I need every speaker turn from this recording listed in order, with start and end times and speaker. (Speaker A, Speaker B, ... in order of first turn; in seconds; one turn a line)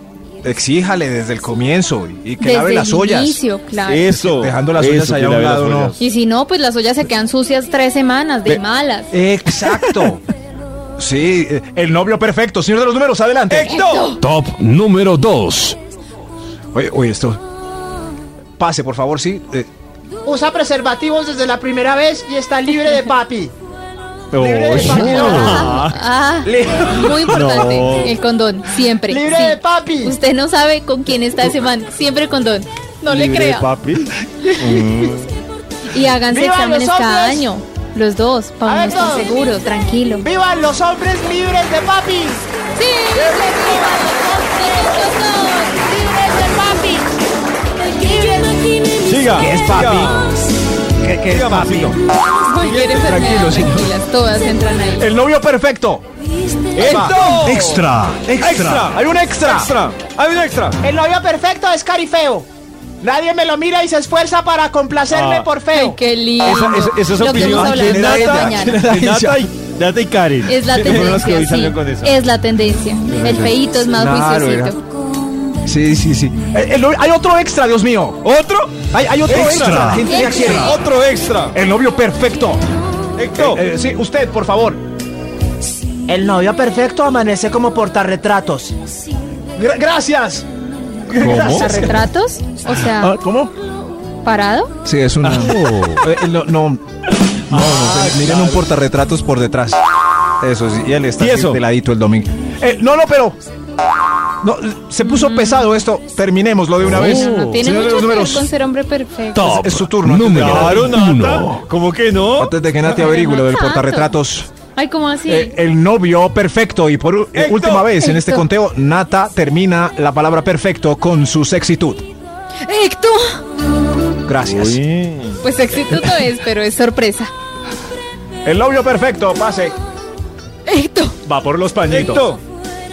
Speaker A: 0.4-3.4
Speaker B: 2.4-4.1
Speaker C: 3.8-6.0
Speaker A: 4.1-6.0
Speaker B: 6.0-9.1
Speaker A: 9.1-10.2
Speaker A: 11.0-13.7
Speaker C: 13.5-14.2
Speaker B: 13.7-14.2
Speaker D: 14.2-15.8
Speaker A: 16.7-17.4
Speaker A: 18.6-19.7
Speaker E: 20.2-23.5
Speaker C: 24.3-26.0
Speaker E: 24.4-25.6
Speaker B: 25.0-33.7
Speaker D: 25.1-25.6
Speaker A: 26.5-27.2
Speaker C: 27.2-28.1
Speaker E: 29.1-30.1
Speaker C: 33.1-35.3
Speaker B: 35.9-40.3
Speaker E: 36.3-37.5
Speaker E: 38.6-39.4
Speaker E: 40.2-42.5
Speaker B: 42.8-46.4
Speaker E: 43.1-44.0
Speaker E: 46.0-47.1
Speaker E: 48.0-49.0
Speaker C: 49.0-50.4
Speaker A: 49.3-50.2
Speaker A: 51.0-52.0
Speaker C: 51.2-52.0
Speaker B: 52.4-55.1
Speaker C: 52.6-53.1
Speaker A: 53.0-53.9
Speaker A: 55.0-56.1
Speaker C: 56.7-57.8
Speaker A: 56.7-59.7
Speaker C: 58.4-60.8
Speaker E: 60.8-62.5
Speaker E: 63.0-66.0
Speaker C: 65.1-65.5
Speaker B: 65.7-68.8
Speaker C: 66.4-72.2
Speaker A: 66.5-69.5
Speaker B: 70.5-74.8
Speaker A: 73.1-74.8
Speaker A: 75.6-78.2
Speaker C: 78.2-81.5
Speaker A: 78.8-80.8
Speaker B: 80.1-80.7
Speaker A: 81.5-82.6
Speaker C: 83.2-83.6
Speaker A: 83.3-84.8
Speaker E: 86.1-88.7
Speaker A: 89.5-90.5
Speaker C: 91.1-91.7
Speaker A: 91.1-92.1
Speaker B: 91.5-93.2
Speaker A: 92.7-93.5
Speaker B: 94.2-94.7
Speaker A: 94.8-99.8
Speaker D: 95.6-96.0
Speaker C: 97.5-98.6
Speaker A: 100.4-103.4
Speaker C: 101.2-101.6
Speaker A: 104.4-108.5
Speaker B: 105.0-105.8
Speaker D: 106.8-107.6
Speaker B: 107.0-109.5
Speaker D: 109.3-111.6
Speaker A: 109.4-110.9
Speaker C: 110.3-112.5
Speaker A: 112.4-114.5
Speaker B: 112.9-114.2
Speaker B: 114.8-115.5
Speaker A: 115.3-122.1
Speaker C: 117.3-117.9
Speaker B: 118.0-118.5
Speaker B: 122.6-123.4
Speaker A: 124.2-124.8
Speaker C: 124.5-125.4
Speaker B: 125.4-127.3
Speaker A: 125.9-126.3
Speaker A: 128.4-129.8
Speaker B: 130.7-131.2
Speaker A: 131.2-132.3
Speaker C: 131.9-132.4